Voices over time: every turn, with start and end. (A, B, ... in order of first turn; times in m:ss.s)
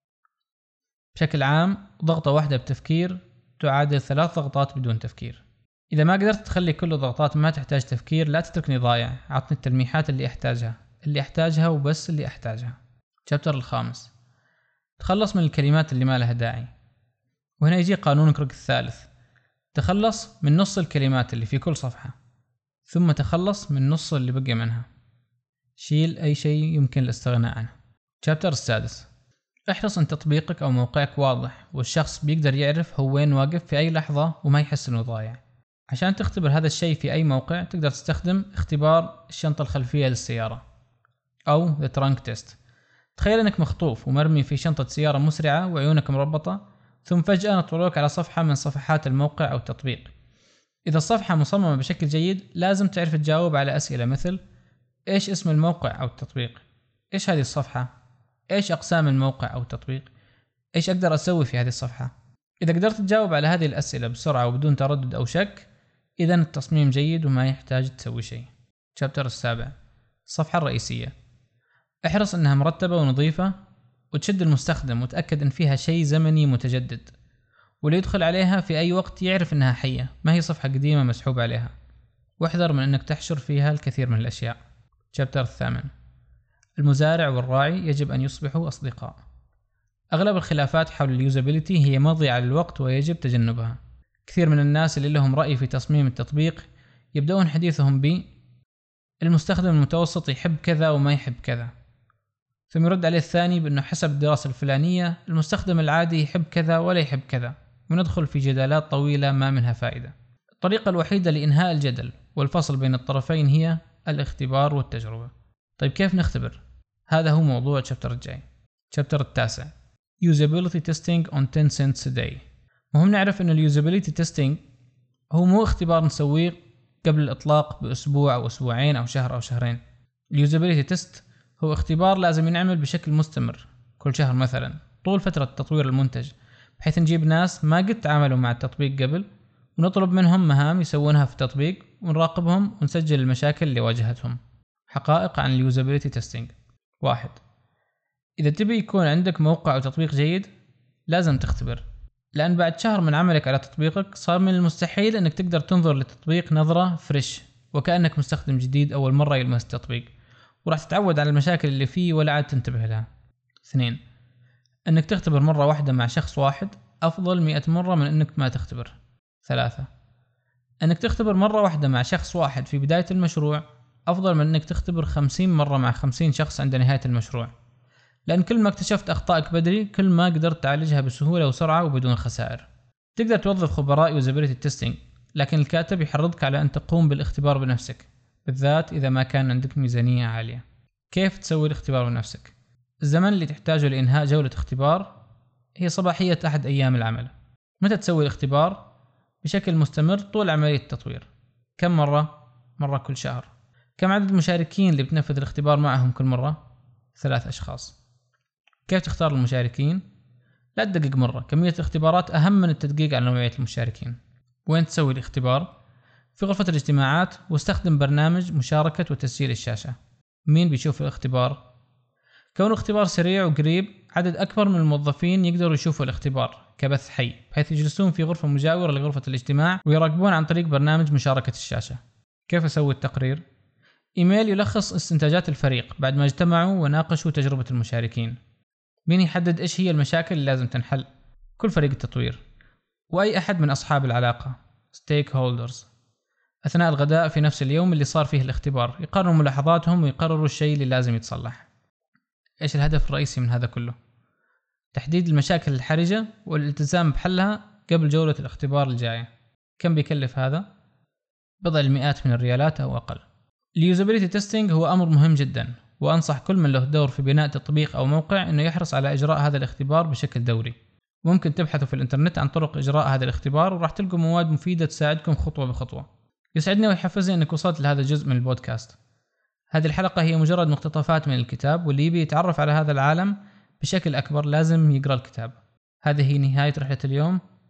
0:01.1-0:14.1 A
0:15.0-0:16.7 A
0:17.6-0:19.1 A
0:19.7-0:22.2 A
0:22.9-0:24.8 A
0:25.8-0:29.1 A
0:29.7-0:40.6 A
0:41.5-0:42.6 A
0:43.2-0:50.1 A
0:50.8-0:54.4 A
0:55.1-0:57.9 A
0:58.5-1:00.1 A
1:00.7-1:05.7 A
1:06.2-1:09.7 A
1:10.3-1:11.1 A
1:12.0-1:13.5 A
1:14.1-1:17.1 A
1:17.8-1:21.7 A
1:22.4-1:24.6 A
1:25.1-1:25.9 A
1:26.8-1:29.2 A
1:30.1-1:38.3 A
1:39.2-1:41.7 A
1:42.7-2:04.6 A
2:05.3-2:09.8 A
2:10.3-2:27.4 A
2:28.4-2:30.5 A
2:31.1-2:40.1 A
2:40.6-2:43.1 A
2:43.6-2:44.0 A
2:44.8-2:49.9 A
2:50.8-2:57.5 A
2:58.3-3:15.1 A
3:15.8-3:18.8 A
3:19.4-3:26.6 A
3:27.1-3:28.0 A
3:28.8-3:30.0 A
3:30.8-3:35.7 A
3:36.4-3:40.0 A
3:40.5-3:41.6 A
3:42.5-3:53.4 A
3:54.2-3:58.4 A
3:59.1-4:02.4 A
4:03.1-4:05.9 A
4:06.6-4:11.7 A
4:12.6-4:13.9 A
4:14.9-4:20.6 A
4:21.6-4:23.2 A
4:23.8-4:39.0 A
4:39.7-4:47.4 A